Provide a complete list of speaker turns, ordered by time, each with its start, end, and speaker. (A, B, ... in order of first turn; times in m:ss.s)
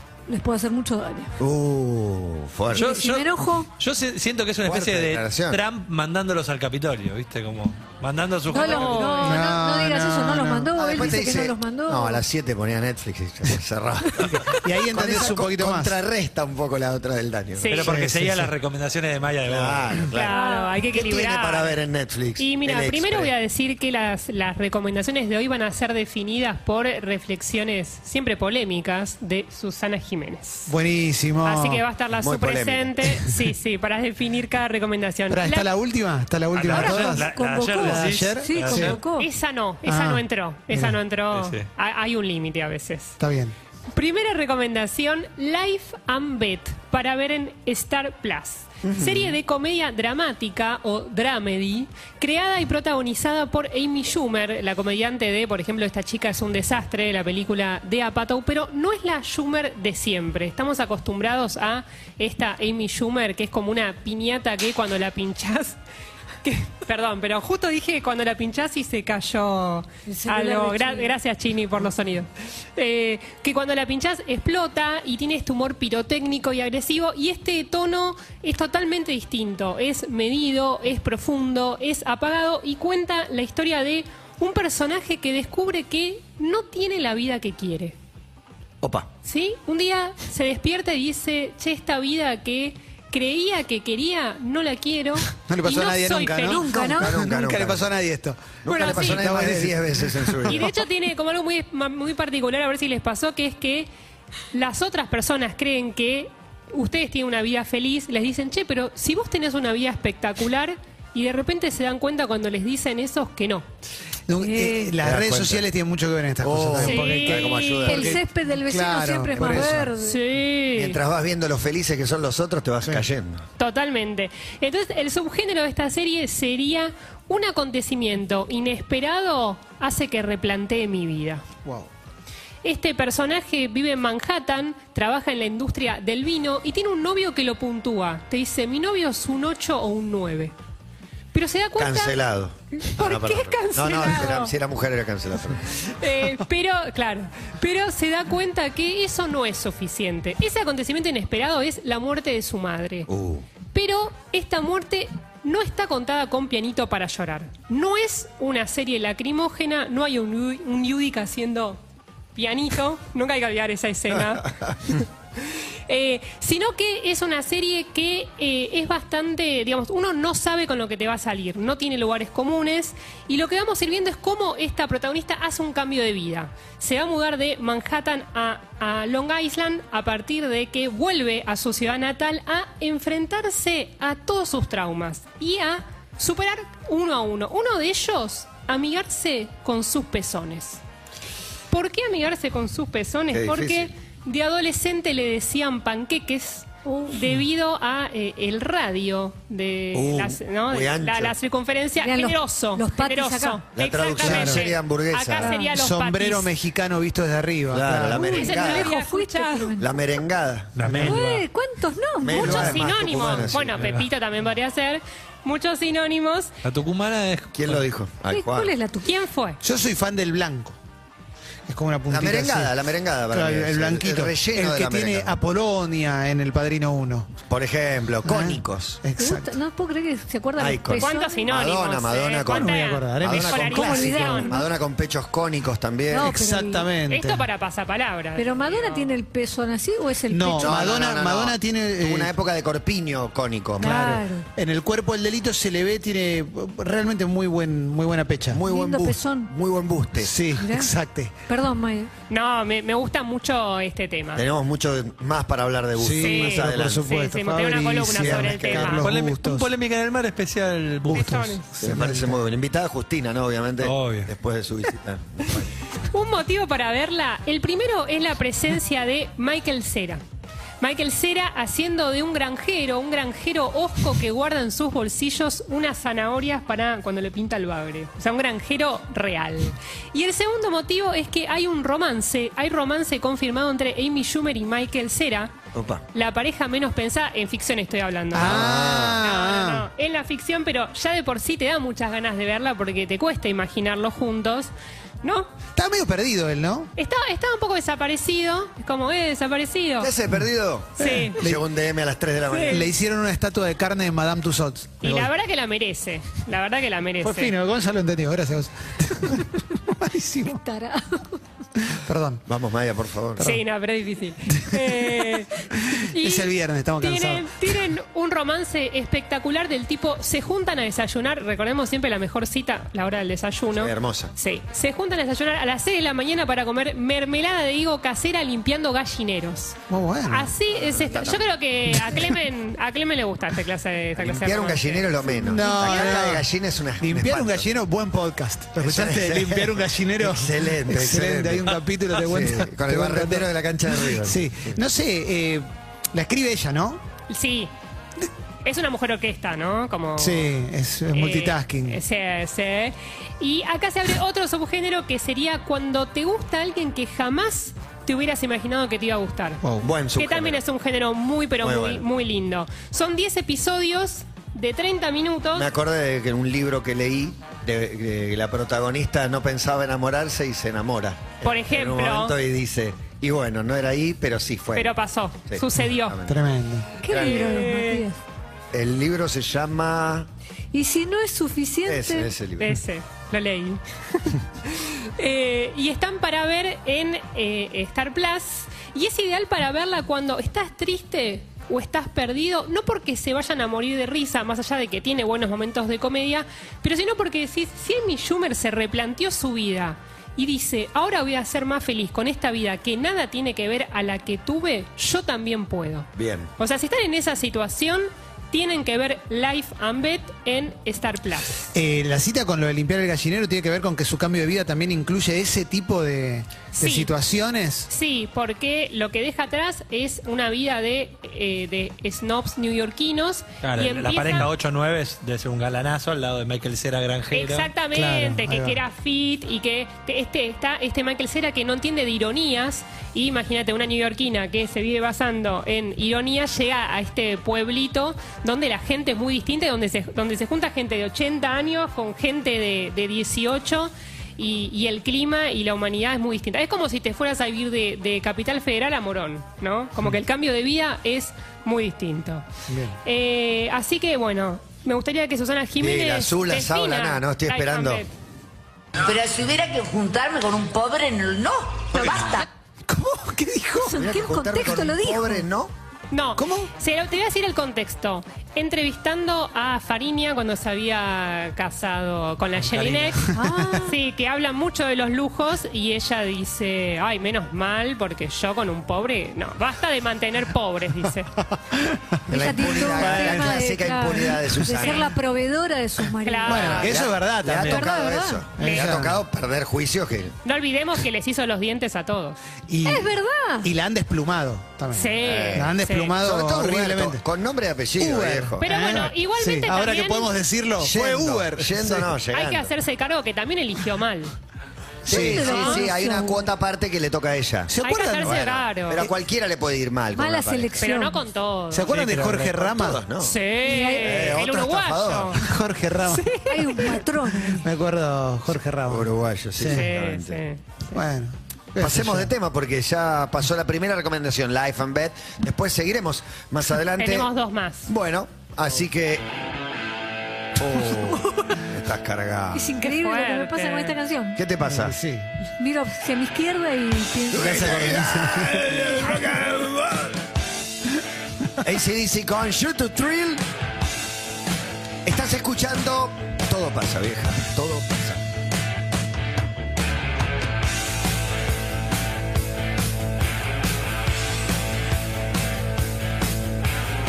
0:00.3-0:01.4 A
0:01.4-0:02.9 B
0:02.7-0:03.7 A
0:02.7-0:09.1 C
0:04.6-0:05.6 B
0:08.5-0:12.2 A
0:08.6-0:09.5 D
0:09.1-0:11.2 E
0:10.8-0:18.5 B
0:14.3-0:16.0 E
0:17.6-0:17.9 D
0:17.7-0:20.1 C
0:17.9-0:18.5 E
0:19.4-0:23.3 B
0:20.1-0:21.8 D
0:20.2-0:20.8 A
0:22.4-0:30.7 D
0:30.7-0:31.8 E
0:31.4-0:35.7 D
0:32.2-0:33.1 B
0:35.3-0:39.0 E
0:36.5-0:39.0 C
0:36.7-0:39.3 A
0:39.1-0:43.2 D
0:39.8-0:41.0 E
0:41.3-0:41.7 C
0:43.2-0:43.6 E
0:43.9-1:05.8 D
0:48.8-0:49.4 B
1:06.4-1:28.0 D
1:10.1-1:11.2 A
1:28.8-1:29.1 B
1:29.2-1:36.8 D
1:35.4-1:40.7 E
1:36.5-1:37.9 B
1:36.6-1:37.2 A
1:38.6-1:40.7 B
1:38.7-1:39.3 D
1:40.5-1:43.9 D
1:44.5-1:53.7 D
1:54.3-1:58.0 E
1:54.4-1:54.9 A
1:55.0-1:55.7 B
1:56.4-1:58.2 B
1:56.8-1:58.0 D
1:57.8-2:00.2 A
1:58.6-1:59.9 E
1:59.4-2:01.0 D
2:00.7-2:03.4 B
2:02.8-2:03.1 E
2:03.6-2:11.4 D
2:12.6-2:20.6 D
2:21.3-2:22.2 D
2:21.8-2:25.6 B
2:22.7-2:24.5 D
2:25.8-2:33.1 D
2:33.1-2:33.5 B
2:33.6-2:41.8 D
2:42.4-3:10.8 D
3:11.7-3:26.5 D
3:13.3-3:13.9 B
3:16.8-3:17.2 A
3:19.9-3:21.4 B
3:22.0-3:23.6 A
3:23.8-3:25.6 B
3:24.2-3:24.7 E
3:25.4-3:28.4 E
3:27.7-3:28.9 B
3:28.1-3:30.0 A
3:28.3-3:29.8 D
3:29.8-3:31.0 B
3:30.8-3:31.5 C
3:30.8-3:31.2 E
3:31.0-3:32.8 A
3:32.2-3:33.8 B
3:32.3-3:36.5 D
3:33.2-3:34.1 C
3:36.6-3:37.8 C
3:37.5-3:38.7 B
3:38.3-3:39.1 A
3:39.0-3:39.6 D
3:39.6-3:40.8 E
3:41.7-3:42.8 E
3:42.1-3:45.3 B
3:43.3-3:47.3 E
3:47.5-3:49.0 B
3:48.2-3:49.6 E
3:49.2-3:51.5 A
3:50.6-3:56.3 B
3:50.9-3:54.6 D
3:52.5-3:54.1 E
3:53.7-3:54.7 A
3:56.1-3:56.9 A
3:56.1-3:57.4 E
3:57.1-3:59.2 D
3:58.4-4:01.0 A
4:00.3-4:02.3 E
4:00.6-4:04.1 B
4:03.8-4:04.5 A
4:03.8-4:08.6 E
4:08.5-4:10.4 B
4:08.7-4:09.5 A
4:10.2-4:11.4 E
4:10.6-4:10.9 A
4:11.5-4:12.1 A
4:12.3-4:14.5 D
4:14.4-4:17.0 B
4:16.0-4:19.7 E
4:16.2-4:19.1 D
4:18.1-4:18.9 B
4:18.8-4:21.6 C
4:21.1-4:21.8 D
4:21.1-4:22.4 E
4:21.8-4:25.7 B
4:23.8-4:24.3 C
4:26.1-4:30.2 D
4:30.8-4:45.6 D
4:45.7-4:46.0 B
4:46.1-4:48.6 D
4:48.3-4:49.8 E
4:48.3-4:49.3 B
4:49.2-4:54.7 D
4:55.2-4:55.5 D
4:55.8-4:56.9 E
4:57.0-5:00.2 D
5:00.0-5:02.9 B
5:01.0-5:01.4 D
5:01.0-5:01.6 E
5:02.5-5:02.9 D
5:02.7-5:05.3 E
5:05.0-5:07.5 D
5:07.2-5:10.6 E
5:10.4-5:11.4 A
5:11.8-5:12.4 E
5:12.5-5:13.5 B
5:13.4-5:36.0 D
5:14.5-5:14.9 E
5:15.9-5:17.8 E
5:23.8-5:24.3 B
5:29.9-5:30.5 E
5:30.8-5:31.5 B
5:31.9-5:32.2 E
5:34.2-5:37.7 B
5:35.3-5:47.0 E
5:38.8-5:44.8 B
5:47.3-5:47.7 D
5:48.6-5:50.5 D
5:50.2-5:52.0 E
5:51.1-5:59.6 D
5:59.8-6:00.6 B
6:00.2-6:05.7 D
6:01.6-6:02.1 B
6:05.5-6:16.4 B
6:11.4-6:12.4 D
6:14.7-6:16.2 D
6:16.3-6:16.9 E
6:17.0-6:18.2 A
6:17.1-6:17.7 B
6:17.1-6:18.1 D
6:18.7-6:20.3 B
6:20.7-6:22.3 A
6:21.9-6:22.8 B
6:22.6-6:51.7 D
6:46.2-6:46.5 B
6:51.7-6:57.9 E
6:56.7-6:57.1 D
6:57.9-7:04.5 D
7:03.6-7:07.7 C
7:07.3-7:32.5 D
7:07.9-7:08.8 E
7:32.7-7:33.0 E
7:33.0-7:38.1 D
7:35.8-7:38.0 B
7:39.0-7:42.5 F
7:42.0-7:44.0 E
7:43.8-7:45.5 A
7:44.0-7:45.7 B
7:46.1-8:01.3 D
7:46.4-7:46.7 E
7:52.8-7:53.1 C
7:53.3-7:54.0 A
8:01.4-8:03.6 E
8:02.3-8:06.9 A
8:02.3-8:05.1 B
8:04.4-8:05.0 E
8:06.2-8:07.0 D
8:06.4-8:07.9 E
8:06.7-8:10.4 B
8:07.6-8:08.4 A
8:08.5-8:09.0 D
8:08.6-8:09.2 E
8:10.4-8:12.4 D
8:12.7-8:17.2 E
8:12.8-8:13.7 A
8:14.9-8:16.2 D
8:15.2-8:19.1 B
8:18.0-8:22.2 E
8:18.6-8:20.3 D
8:20.8-8:22.7 B
8:22.2-8:24.4 D
8:25.1-8:25.6 E
8:25.1-8:30.9 B
8:25.1-8:26.4 A
8:25.5-8:25.9 D
8:27.7-8:29.1 E
8:27.8-8:29.1 D
8:30.1-8:31.2 A
8:30.8-8:31.9 D
8:31.7-8:33.0 E
8:31.9-8:32.5 C
8:32.4-8:33.4 B
8:33.2-8:35.4 D
8:33.6-8:34.4 A
8:34.0-8:35.4 B
8:35.4-8:36.3 E
8:36.0-8:37.0 D
8:36.5-8:37.6 A
8:37.6-8:39.9 E
8:38.9-8:40.4 B
8:39.7-8:40.6 D
8:40.9-8:42.3 E
8:41.8-8:47.3 B
8:47.0-8:47.9 D
8:47.9-8:49.2 B
8:50.6-8:52.7 B
8:52.5-8:54.4 A
8:52.8-8:54.0 D
8:54.4-8:55.0 B
8:54.6-8:55.3 E
8:55.6-8:57.7 A
8:57.3-9:00.2 B
8:57.4-8:58.7 E
9:01.6-9:03.4 B
9:05.0-9:08.2 B